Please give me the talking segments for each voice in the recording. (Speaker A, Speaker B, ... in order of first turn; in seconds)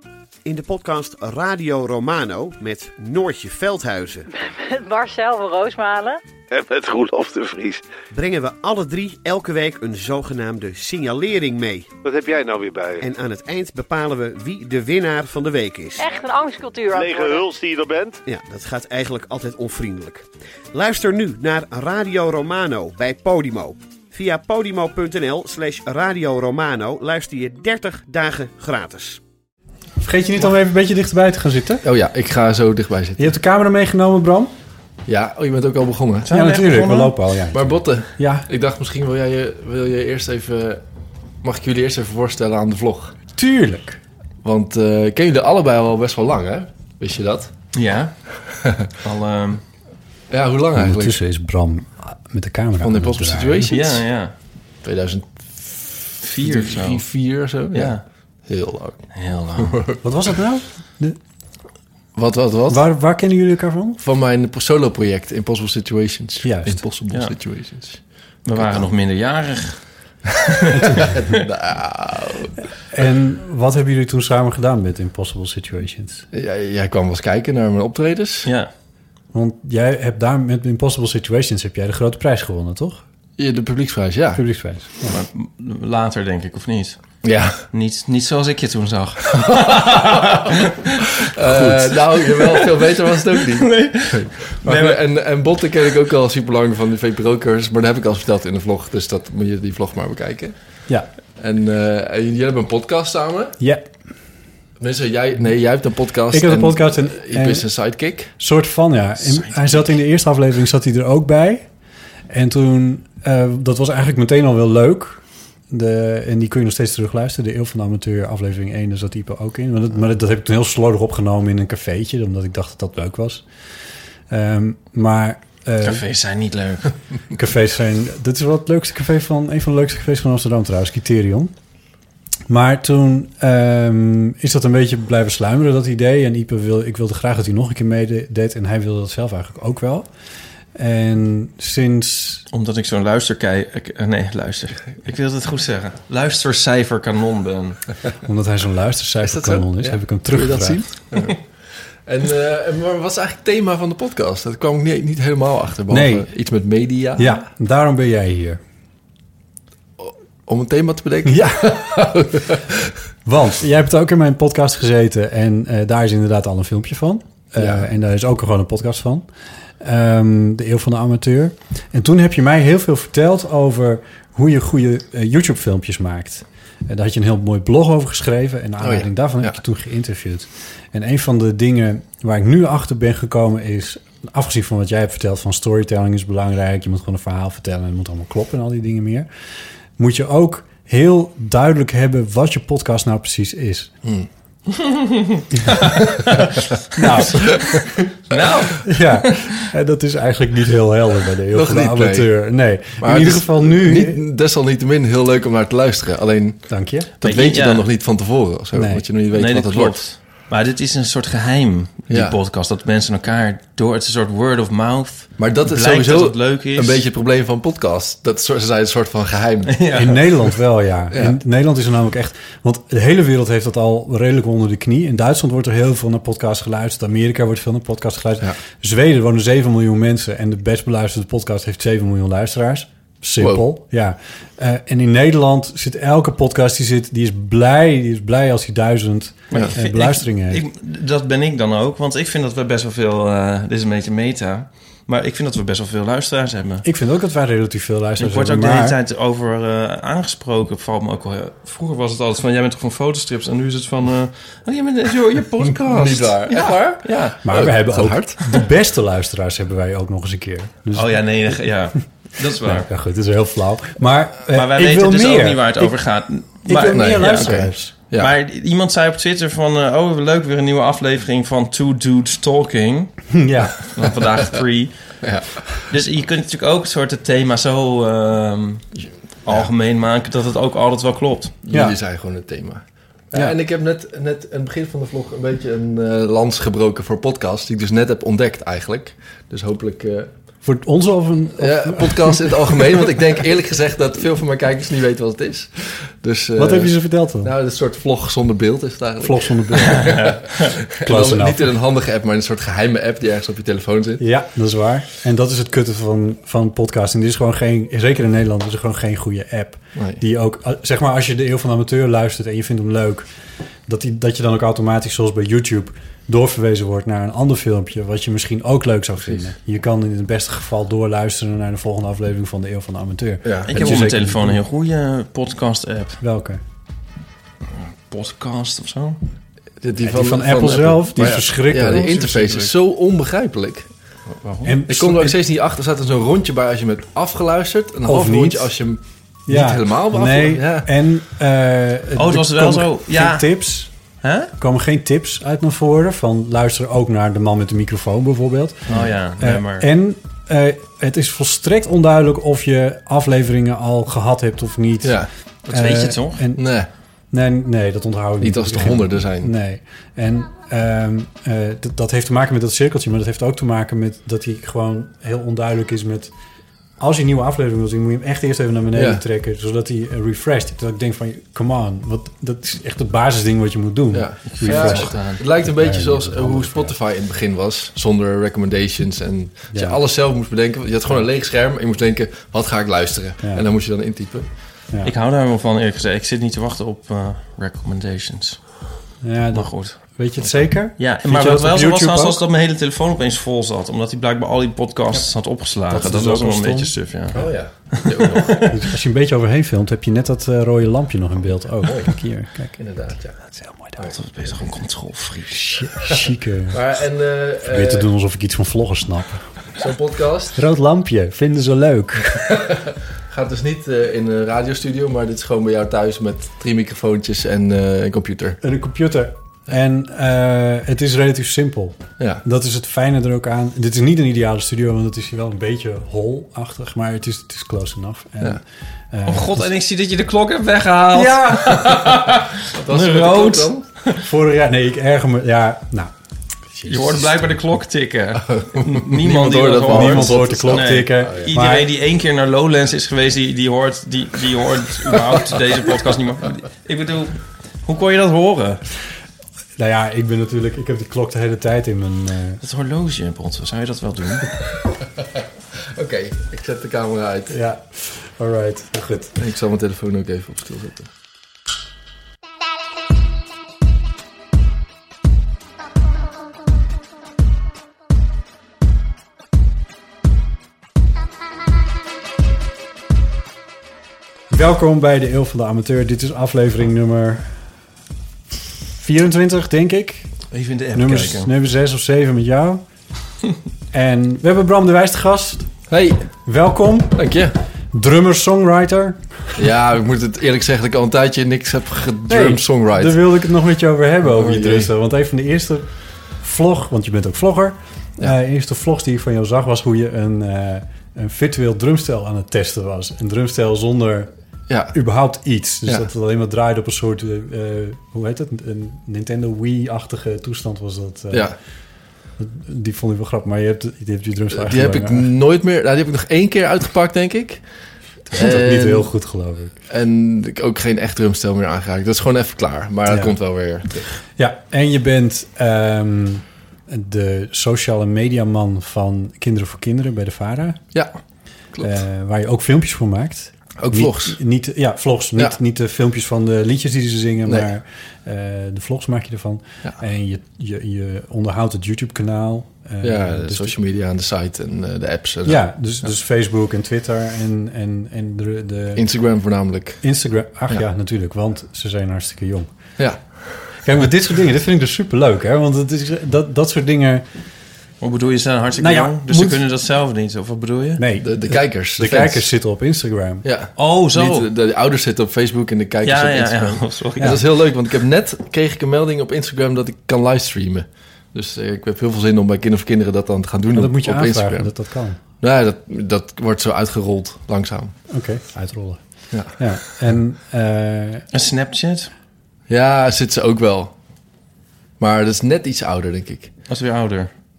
Speaker A: 0.5-4.3, 8.1-11.9, 13.0-16.1, 18.3-29.2
Speaker B: 4.3-6.2, 16.0-17.5
Speaker C: 6.5-7.8, 12.0-13.0, 16.9-18.2
Speaker D: 30.0-31.8, 33.2-34.5, 36.3-38.5, 43.4-44.0, 50.8-53.7, 60.0-61.2, 62.7-64.0, 66.4-66.8, 72.8-76.3, 79.3-83.0, 84.3-85.2, 103.6-103.9, 106.3-107.7, 108.4-111.7, 112.3-123.4, 124.3-126.0, 127.4-131.5, 132.5-140.1, 140.8-142.4, 148.2-150.9, 155.9-156.3, 157.2-158.6, 161.3-161.8, 163.2-169.3, 169.8-189.3, 190.0-193.9, 196.9-197.9, 198.8-204.2, 206.7-207.1, 208.7-209.1, 219.9-240.6, 246.8-249.0, 257.4-261.5, 262.6-265.9, 266.7-267.9, 273.3-273.8, 290.6-292.8, 296.6-297.5, 299.2-300.2, 301.1-301.6, 304.2-313.3, 313.9-324.6, 326.2-326.6, 330.0-332.7, 334.6-335.4, 338.1-338.8, 339.5-343.9, 344.6-356.7, 357.3-366.3, 367.0-376.9, 379.7-380.0, 389.2-392.4, 395.9-396.9, 398.7-402.8, 403.5-404.2, 405.5-406.8, 407.6-409.5, 410.6-412.6, 418.6-429.7, 431.1-431.9, 434.2-436.1, 436.7-437.3, 439.9-441.9, 449.8-452.6, 457.5-459.3, 474.5-477.5, 479.0-480.3, 480.9-482.8, 483.9-485.7, 486.5-487.2, 487.9-489.2, 492.3-504.3, 504.9-511.5, 512.4-515.3, 518.3-519.8, 523.1-523.4, 524.4-530.8, 531.8-543.8, 545.5-549.0, 550.0-552.7, 553.8-557.2, 558.8-559.6, 561.0-563.5, 573.7-575.2, 578.1-581.2
Speaker E: 31.8-33.3, 35.1-36.3, 37.5-40.8, 41.4-43.1, 44.4-47.5, 48.6-48.9, 50.3-51.2, 52.8-54.0, 54.8-60.0, 62.1-62.8, 64.0-68.0, 68.5-68.9, 70.8-72.5, 76.3-78.5, 83.4-84.4, 87.2-87.6, 89.8-90.5, 91.2-100.6, 101.4-103.6, 104.8-108.3, 149.2-151.4, 152.1-157.4, 160.0-162.9, 167.6-167.9, 178.8-179.6, 197.3-197.8, 201.5-210.1, 212.1-212.4, 215.4-220.2, 221.1-221.4, 233.4-233.7, 255.7-258.6, 266.7-268.4, 275.2-275.6, 279.0-279.7, 281.6-290.3, 291.6-304.2, 309.9-310.2, 323.4-324.1, 329.8-333.9, 334.9-340.9, 355.0-355.3, 356.6-356.9, 358.4-359.5, 368.9-369.2, 374.1-384.5, 397.3-398.7, 401.8-402.1, 402.8-403.4, 406.7-408.1, 409.8-410.6, 412.5-418.6, 432.7-433.9, 438.4-441.5, 455.8-457.6, 459.4-461.1, 485.9-486.3, 487.1-487.5, 489.6-493.3, 494.2-494.9, 504.7-505.0, 511.3-511.6, 514.5-517.6, 518.3-519.1, 519.9-524.2, 531.7-532.0, 533.8-534.4, 543.0-545.7, 549.0-550.0, 553.0-553.7, 561.2-562.5, 563.4-574.8, 575.4-577.9, 579.3-579.8, 582.7-583.9, 585.0-586.5
Speaker F: 36.3-37.1, 47.7-48.3, 49.0-49.6, 53.7-54.3, 56.2-57.0, 57.7-58.0, 59.1-59.8, 68.5-69.8, 70.6-71.4, 78.5-78.7, 85.1-87.0, 87.7-91.1, 92.1-95.0, 109.2-109.9, 125.8-126.9, 142.5-147.8, 194.7-196.6, 198.3-198.9, 207.2-207.8, 209.3-217.0, 219.7-220.2, 239.5-246.8, 248.2-257.4, 260.9-262.9, 264.5-274.9, 275.9-278.9, 279.4-281.6, 300.0-300.5, 323.7-326.2, 327.7-329.2, 332.2-332.5, 334.4-334.7, 342.2-343.6, 344.2-344.5, 348.9-349.9, 355.7-356.4, 374.5-375.4, 385.0-388.6, 389.5-390.0, 391.0-398.6, 404.1-405.9, 429.3-434.2, 436.9-448.8, 452.6-454.6, 480.5-481.5, 558.0-561.0, 563.8-564.5, 566.0-567.4, 581.3-582.1, 586.7-587.3